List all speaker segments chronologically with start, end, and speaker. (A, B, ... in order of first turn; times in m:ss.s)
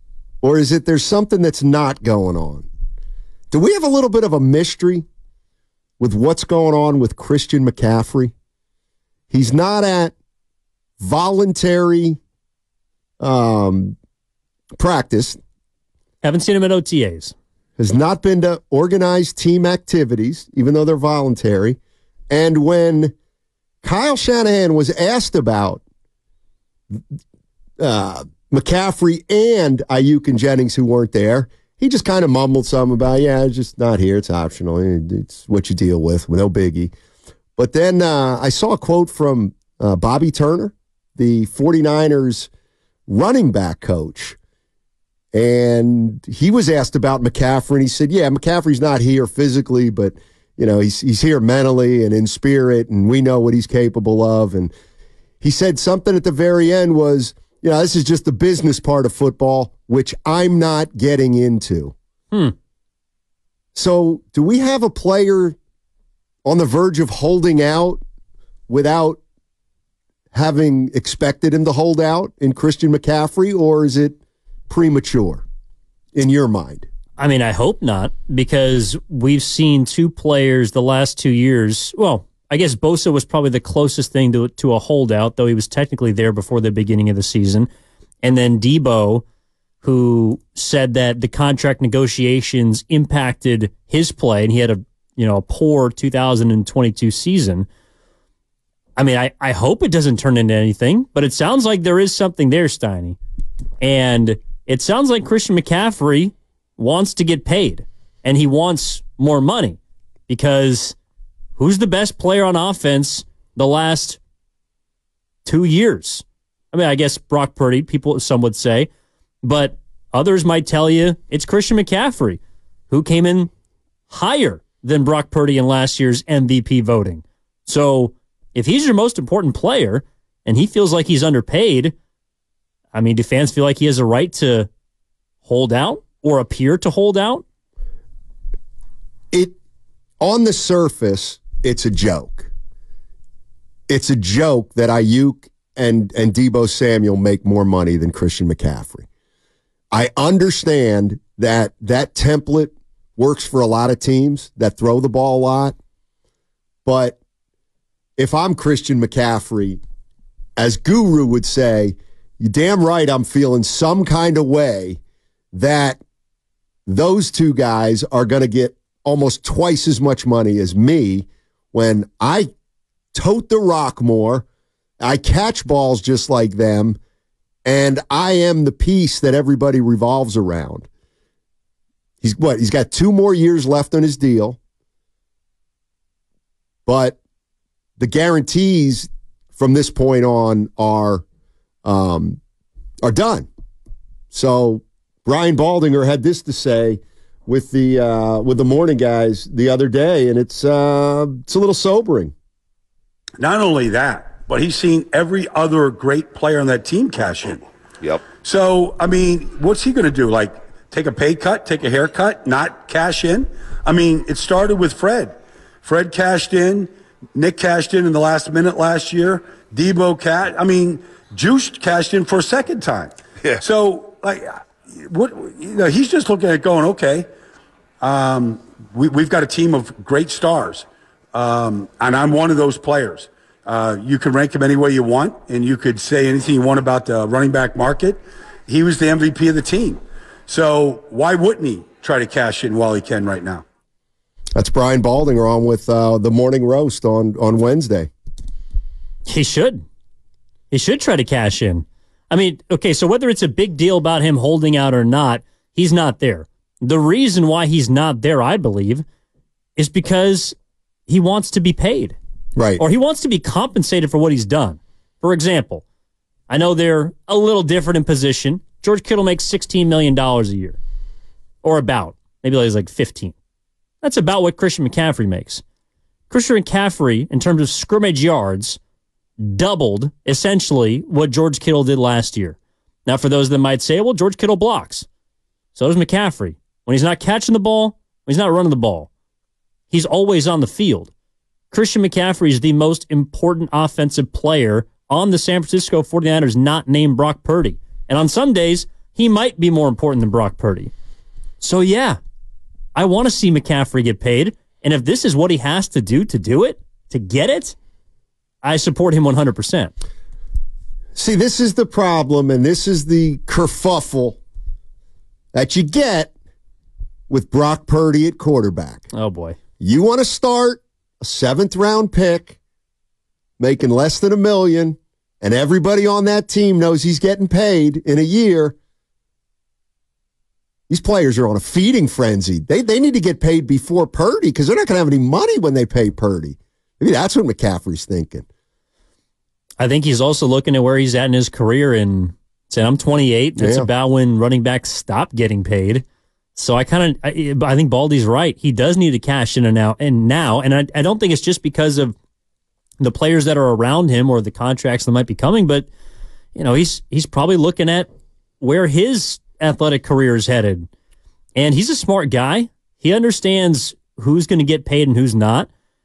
0:00.4-0:02.7 A
0:03.5-0:05.0 A
0:06.0-0:08.3 A
0:09.3-0:10.1 A
0:11.0-0:12.2 A
0:13.2-0:14.0 A
0:14.8-0:15.4 A
0:16.2-0:17.3 B
0:17.8-0:21.8 A
0:22.3-0:23.1 A
0:23.8-0:25.8 A
0:27.8-0:36.9 A
0:37.6-0:42.5 A
0:43.1-0:44.4 A
0:45.3-0:54.7 A
0:55.4-1:01.9 A
1:03.8-1:05.6 A
1:06.4-1:08.0 A
1:08.7-1:09.2 A
1:10.3-1:15.4 A
1:16.2-1:16.9 A
1:17.2-1:27.7 B
1:28.2-1:29.2 B
1:29.8-1:37.7 B
1:39.0-1:43.2 B
1:43.8-1:51.0 B
1:51.6-1:54.2 B
1:55.4-1:58.9 B
1:59.4-2:02.4 B
2:02.9-2:03.5 B
2:04.1-2:11.9 B
2:12.9-2:14.7 B
2:15.4-2:17.4 B
2:20.2-2:22.5 A
2:23.9-2:29.1 A
2:29.9-2:35.8 A
2:36.9-2:37.2 A
2:38.2-2:39.8 A
2:40.6-2:45.0 A
2:45.5-2:46.0 A
2:46.9-2:52.5 A
2:53.1-2:54.5 A
2:55.0-2:57.0 A
2:57.6-3:00.9 A
3:02.2-3:04.6 A
3:06.9-3:07.2 A
3:08.0-3:11.2 A
3:11.8-3:12.4 A
3:13.0-3:13.5 A
3:14.3-3:22.3 A
3:23.4-3:27.6 C
3:28.3-3:47.3 C
3:48.0-4:03.6 C
4:04.6-4:08.1 A
4:09.3-4:09.8 B
4:10.7-4:19.0 B
4:19.8-4:20.6 B
4:21.1-4:22.2 B
4:22.6-4:22.8 A
4:22.8-4:25.8 B
4:26.5-4:30.8 B
4:31.6-4:33.3 B
4:34.0-4:35.6 B
4:36.3-4:38.8 B
4:39.4-4:45.1 B
4:45.8-4:49.1 B
4:49.9-4:51.1 B
4:51.7-5:00.9 B
5:01.6-5:02.2 B
5:03.0-5:07.8 B
5:08.6-5:09.9 B
5:11.2-5:14.4 A
5:15.5-5:16.3 A
5:17.3-5:19.0 A
5:19.1-5:19.6 B
5:19.8-5:22.6 A
5:23.6-5:28.8 A
5:30.9-5:38.4 A
5:39.8-5:46.0 B
5:43.6-5:43.9 A
5:46.6-5:52.2 B
5:53.0-5:55.9 B
5:56.6-5:58.1 B
5:58.6-6:00.9 B
6:01.6-6:05.7 B